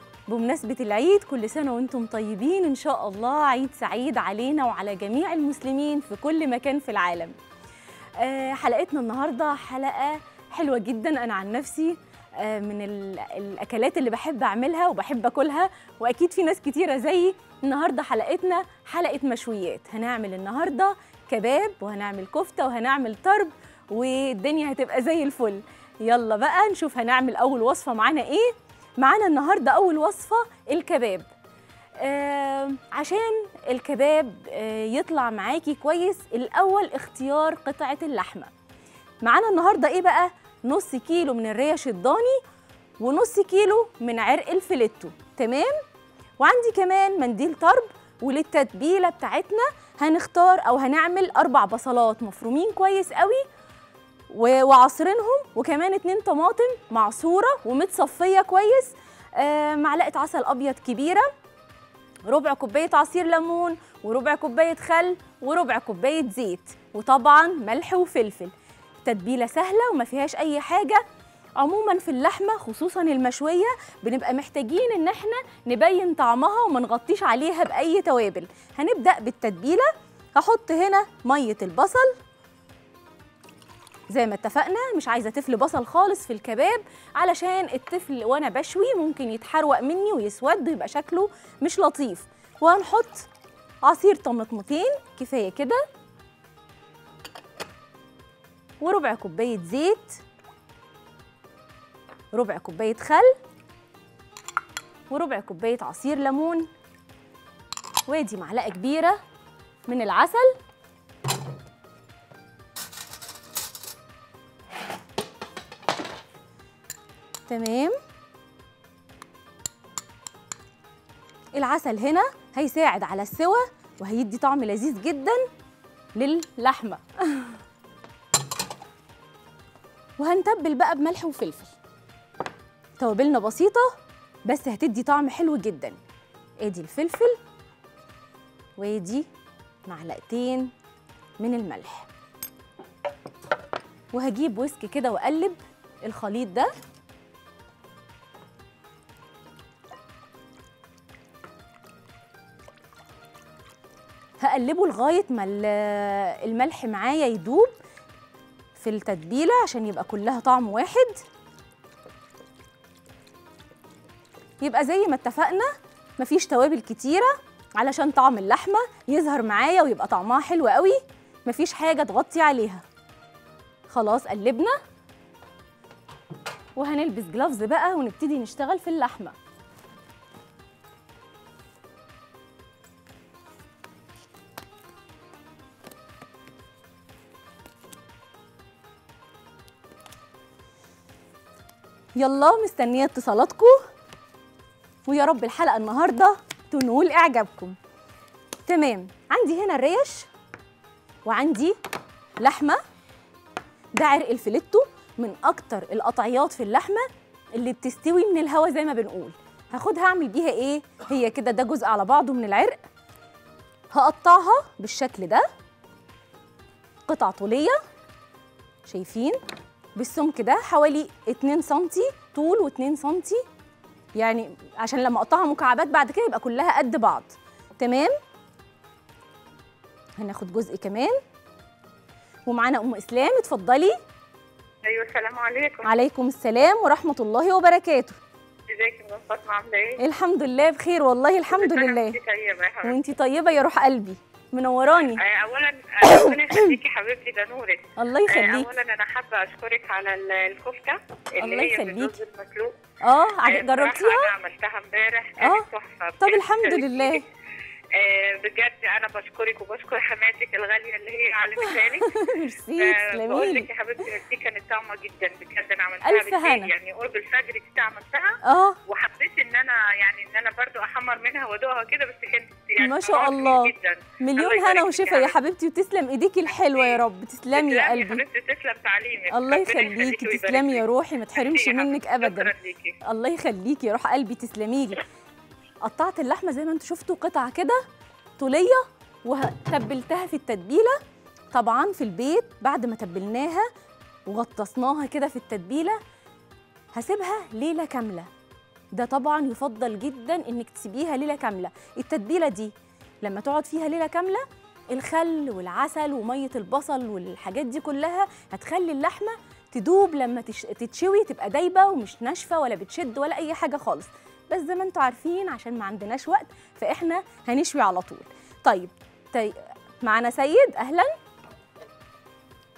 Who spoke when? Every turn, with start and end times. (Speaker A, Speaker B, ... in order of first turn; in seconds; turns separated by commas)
Speaker A: 0.3-7.3, Speaker A: 8.2-31.3, Speaker A: 32.0-38.5, Speaker A: 39.2-42.4, Speaker A: 43.0-45.7, Speaker A: 46.4-53.4, Speaker A: 54.3-61.3, Speaker A: 62.2-68.5, Speaker A: 69.0-71.0, Speaker A: 71.6-82.2, Speaker A: 84.1-93.3, Speaker A: 93.8-95.8, Speaker A: 98.8-100.2, Speaker A: 102.3-103.4, Speaker A: 105.1-106.7, Speaker A: 108.1-109.2, Speaker A: 109.9-110.6, Speaker A: 117.5-117.9, Speaker A: 121.5-125.5, Speaker A: 126.2-127.6, Speaker A: 130.2-131.7, Speaker A: 133.0-133.9, Speaker A: 134.5-136.0, Speaker A: 136.6-137.4, Speaker A: 138.8-139.3, Speaker A: 139.9-140.7, Speaker A: 141.4-142.1, Speaker A: 144.1-146.7, Speaker A: 154.4-157.8, Speaker A: 158.8-161.2, Speaker A: 164.6-172.8, Speaker A: 173.9-174.8, Speaker A: 176.8-179.3, Speaker A: 192.2-193.9, Speaker A: 195.1-197.8, Speaker A: 198.7-200.3, Speaker A: 201.2-201.8, Speaker A: 202.4-202.8, Speaker A: 203.9-212.8, Speaker A: 213.9-215.5, Speaker A: 217.1-217.8, Speaker A: 218.9-219.4, Speaker A: 219.9-223.4, Speaker A: 224.2-228.1, Speaker A: 230.2-231.2, Speaker A: 232.5-234.0, Speaker B: 234.8-235.9, Speaker A: 235.8-238.2, Speaker B: 238.7-240.0, Speaker A: 240.0-242.2, Speaker B: 241.5-243.0, Speaker A: 242.8-245.2, Speaker B: 245.1-252.8, Speaker A: 246.0-246.7, Speaker A: 248.0-248.7, Speaker A: 251.4-252.2, Speaker A: 253.0-254.3, Speaker B: 253.4-257.2, Speaker A: 255.4-255.7, Speaker A: 256.2-257.2, Speaker B: 257.9-262.2, Speaker A: 262.0-263.7, Speaker B: 262.8-275.4, Speaker A: 266.0-266.7, Speaker A: 268.4-268.8, Speaker A: 272.8-278.2, Speaker B: 276.5-277.0, Speaker B: 277.5-282.9, Speaker A: 279.3-285.0, Speaker A: 285.8-287.8, Speaker A: 288.4-291.0, Speaker A: 291.5-293.7, Speaker A: 294.3-296.0, Speaker A: 296.9-298.3, Speaker A: 298.9-321.1